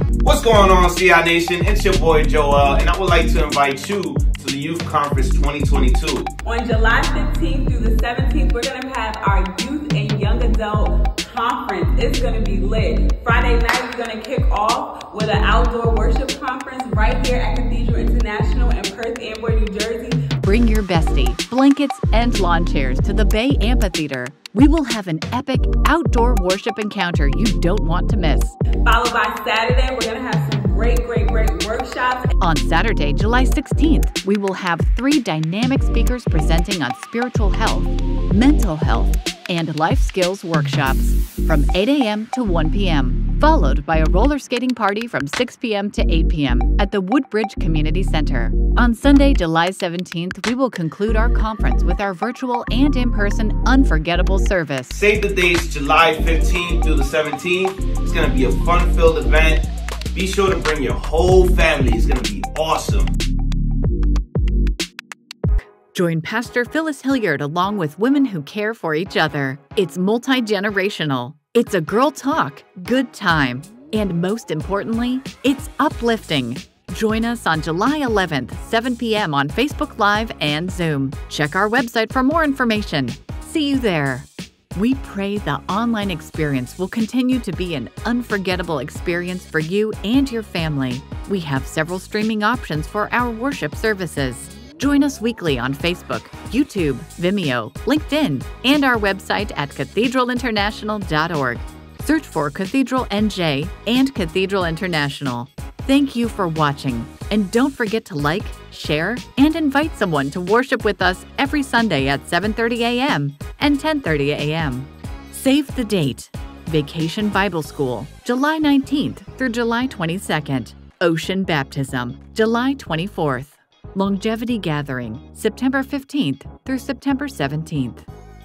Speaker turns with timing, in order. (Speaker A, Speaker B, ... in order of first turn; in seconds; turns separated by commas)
Speaker A: 0.2-6.3, Speaker B: 6.4-20.2, Speaker C: 20.4-28.6, Speaker B: 28.8-32.3, Speaker C: 32.4-55.0, Speaker A: 54.9-63.1, Speaker C: 65.9-128.1